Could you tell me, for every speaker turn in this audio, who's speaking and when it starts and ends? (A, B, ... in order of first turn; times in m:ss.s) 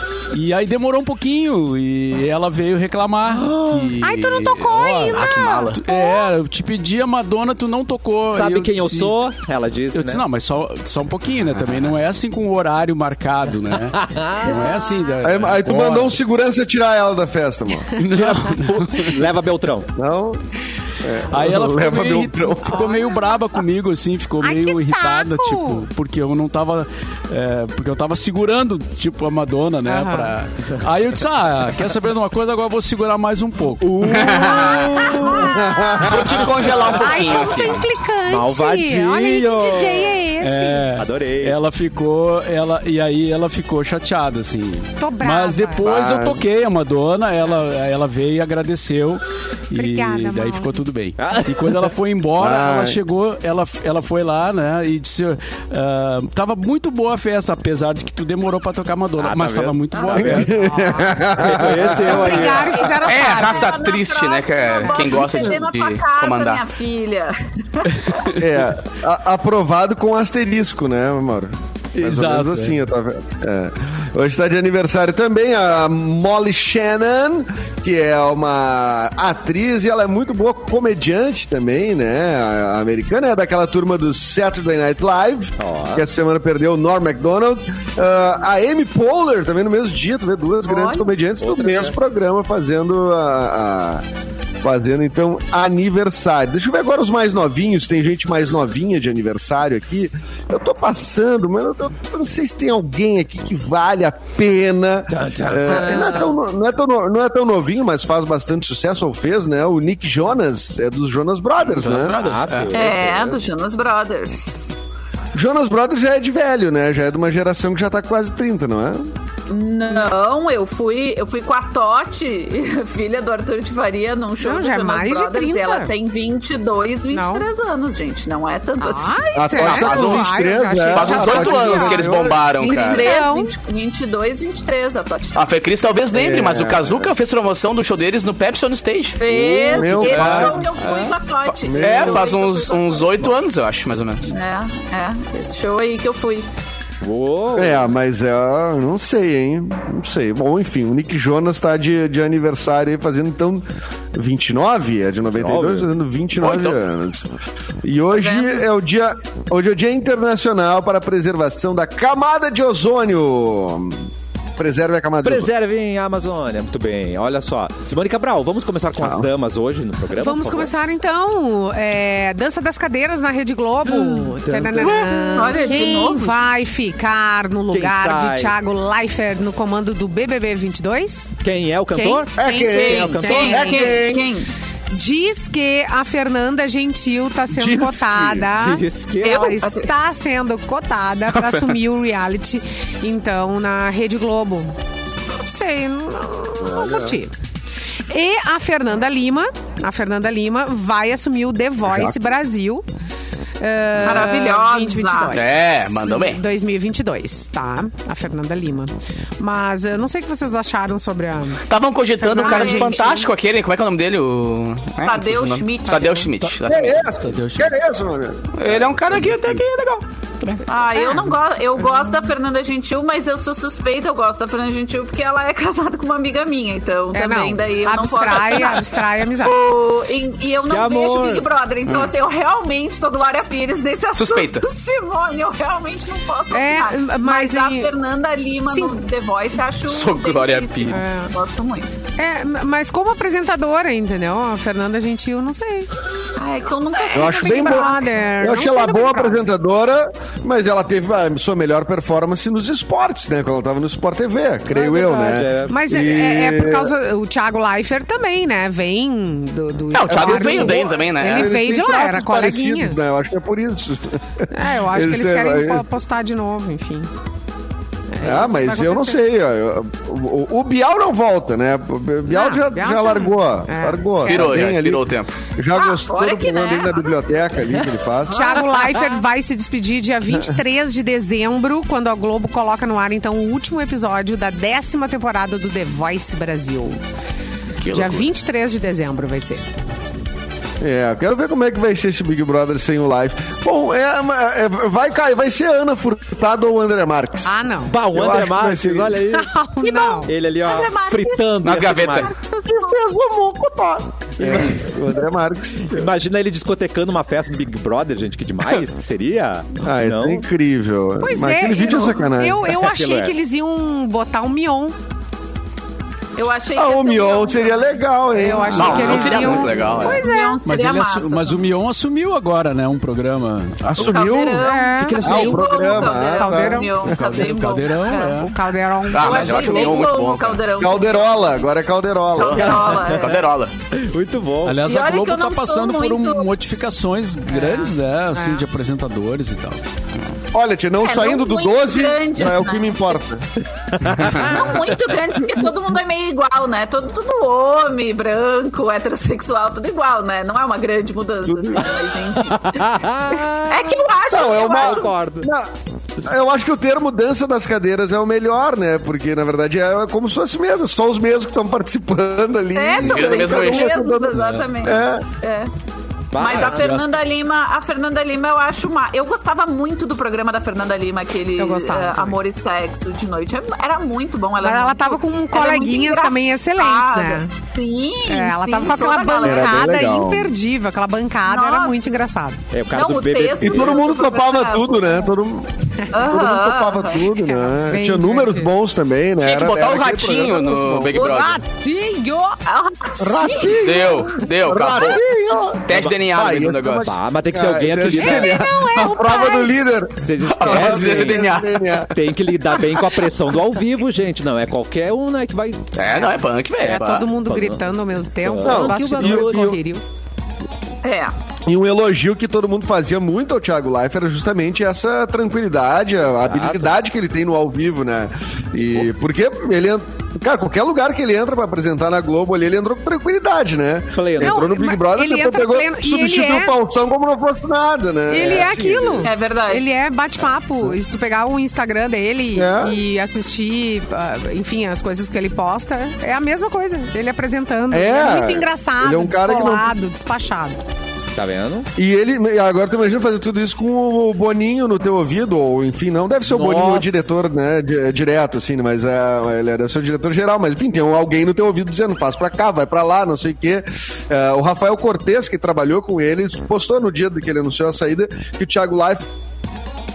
0:00.3-0:09.2 A
0:03.3-0:04.0 B
0:04.0-0:06.3 C
0:05.1-0:05.8 D
0:08.3-0:10.2 B
0:09.9-0:16.2 A
0:13.9-0:14.7 B
0:14.5-0:15.1 C
0:15.2-0:17.9 E
0:18.0-0:19.2 A
0:18.0-0:19.9 B
0:20.0-0:20.4 E
0:21.0-0:22.8 E
0:21.3-0:33.9 A
0:22.6-0:23.4 C
0:24.4-0:25.8 C
0:29.9-0:30.3 C
0:33.8-0:35.6 B
0:34.0-0:35.0 D
0:34.6-0:36.2 C
0:35.4-0:37.2 E
0:36.0-0:37.8 D
0:36.4-0:40.2 B
0:36.8-0:40.9 C
0:40.4-1:00.6 A
0:41.0-0:41.6 B
0:45.0-0:45.9 C
0:45.8-0:46.4 E
0:49.8-0:50.8 C
0:51.2-0:51.9 B
0:52.4-0:53.0 E
0:59.2-1:00.7 B
1:00.2-1:02.6 E
1:00.5-1:03.9 C
1:01.4-1:03.1 B
1:02.8-1:08.2 F
1:03.0-1:06.6 D
1:04.9-1:05.1 C
1:08.0-1:08.3 A
1:08.4-1:34.0 E
1:12.0-1:12.8 A
1:25.6-1:26.0 B
1:30.7-1:31.1 F
1:31.4-1:32.0 B
1:34.6-1:52.2 E
1:45.1-1:46.4 B
1:51.7-1:52.9 D
1:51.8-1:53.4 B
1:52.7-1:54.7 F
1:55.3-1:59.1 E
1:59.5-2:09.2 F
2:04.4-2:05.9 C
2:07.1-2:07.5 C
2:08.8-2:13.5 C
2:09.4-2:12.4 E
2:09.5-2:10.3 D
2:10.9-2:13.2 D
2:12.6-2:15.4 F
2:15.3-2:19.2 D
2:16.1-2:17.1 E
2:19.2-2:23.3 F
2:19.3-2:20.6 B
2:19.7-2:20.6 E
2:20.0-2:24.3 D
2:21.7-2:22.3 E
2:24.3-2:26.5 F
2:27.0-2:27.9 B
2:27.6-2:37.3 E
2:35.4-2:35.9 B
2:36.4-2:36.8 D
2:37.8-2:45.5 E
2:38.1-2:38.6 F
2:45.2-2:50.7 B
2:49.0-2:49.3 E
2:50.1-3:01.4 C
2:53.9-2:55.4 B
2:54.8-2:56.4 F
2:57.7-2:58.6 B
3:01.4-3:03.9 B
3:01.9-3:04.0 C
3:02.4-3:04.3 E
3:02.7-3:04.5 F
3:04.9-3:14.7 C
3:07.5-3:08.5 E
3:08.5-3:09.5 B
3:09.2-3:09.9 F
3:11.3-3:11.8 D
3:15.4-3:17.3 C
3:16.6-3:17.2 E
3:18.1-3:22.8 C
3:21.8-3:22.3 E
3:23.6-3:31.6 C
3:24.0-3:25.4 F
3:25.3-3:26.4 D
3:31.7-3:37.0 D
3:32.2-3:33.3 C
3:32.4-3:33.0 F
3:35.0-3:36.3 F
3:36.6-3:39.3 E
3:37.2-3:37.8 A
3:38.6-3:40.6 D
3:40.7-4:02.0 F
3:41.0-3:42.1 C
3:47.1-3:49.6 C
3:50.7-3:51.4 B
3:51.9-3:52.1 D
3:54.2-3:54.6 D
3:56.5-3:57.9 C
3:58.7-3:59.0 C
3:59.9-4:01.0 D
4:00.9-4:01.3 C
4:02.2-4:05.9 C
4:06.4-4:08.1 F
4:06.9-4:09.4 C
4:07.1-4:16.9 E
4:14.7-4:15.8 B
4:15.7-4:23.0 C
4:19.9-4:21.6 D
4:20.1-4:25.8 E
4:24.5-4:27.1 C
4:28.1-4:29.2 C
4:28.2-4:38.6 E
4:32.3-4:34.5 C
4:34.2-4:35.4 D
4:35.8-4:37.2 F
4:38.3-4:39.0 F
4:38.3-4:47.0 C
4:40.3-4:40.6 E
4:47.8-4:48.2 D
4:47.9-4:49.6 C
4:50.8-4:57.6 E
4:57.4-4:58.0 C
4:57.9-4:59.5 B
4:58.1-4:59.2 E
4:59.3-5:00.3 C
4:59.8-5:03.0 F
5:00.2-5:02.3 B
5:01.6-5:02.3 D
5:02.9-5:06.1 E
5:04.4-5:04.9 B
5:05.9-5:10.4 B
5:09.8-5:12.8 E
5:11.2-5:15.0 C
5:12.8-5:13.4 B
5:16.4-5:18.0 F
5:16.8-5:19.9 E
5:18.3-5:20.6 C
5:18.7-5:20.3 D
5:19.6-5:21.6 F
5:20.6-5:24.0 A
5:23.8-5:24.7 E
5:24.0-5:28.5 F
5:24.6-5:25.5 C
5:24.9-5:26.2 B
5:25.2-5:27.1 E
5:26.1-5:26.9 C
5:27.0-5:28.6 A
5:28.1-5:30.1 C
5:29.1-5:30.6 D
5:29.2-5:31.7 F
5:30.8-5:32.9 E
5:32.4-5:33.4 F
5:32.4-5:34.8 B
5:33.2-5:33.7 D
5:34.6-5:39.8 A
5:34.8-5:36.5 F
5:37.5-5:38.6 C
5:40.5-5:43.5 E
5:41.0-5:43.2 F
5:44.0-5:44.8 B
5:44.4-5:55.1 F
5:51.5-5:51.8 E
5:52.5-5:55.5 B
5:54.3-6:05.2 E
6:02.8-6:05.7 F
6:03.0-6:04.0 D
6:04.4-6:04.7 A
6:06.3-6:06.9 B
6:06.4-6:19.9 F
6:06.5-6:07.1 A
6:11.6-6:12.4 C
6:14.6-6:17.5 C
6:18.3-6:22.6 C
6:19.4-6:20.5 E
6:21.4-6:22.2 F
6:22.7-6:24.0 B
6:22.9-6:25.3 F
6:23.6-6:31.2 E
6:26.1-6:27.3 F
6:27.4-6:28.7 C
6:29.4-6:31.6 D
6:31.1-6:31.6 F
6:31.2-6:32.6 C
6:32.7-6:34.2 F
6:33.2-6:42.1 E
6:33.8-6:35.2 D
6:35.9-6:37.1 D
6:37.0-6:38.6 B
6:38.1-6:39.8 C
6:40.2-6:41.5 B
6:40.5-6:42.1 D
6:42.1-6:46.0 B
6:46.0-6:47.3 D
6:46.8-6:50.0 C
6:47.4-6:47.9 B
6:48.4-6:49.7 B
6:48.6-6:49.8 E
6:51.0-6:51.3 F
6:51.7-7:09.3 E
6:56.4-6:57.0 B
7:04.2-7:04.7 B
7:04.4-7:06.7 C
7:08.3-7:20.8 C
7:09.2-7:09.9 F
7:12.6-7:13.0 E
7:17.9-7:20.0 E
7:21.3-7:21.9 B
7:22.0-7:39.3 E
7:26.5-7:27.1 B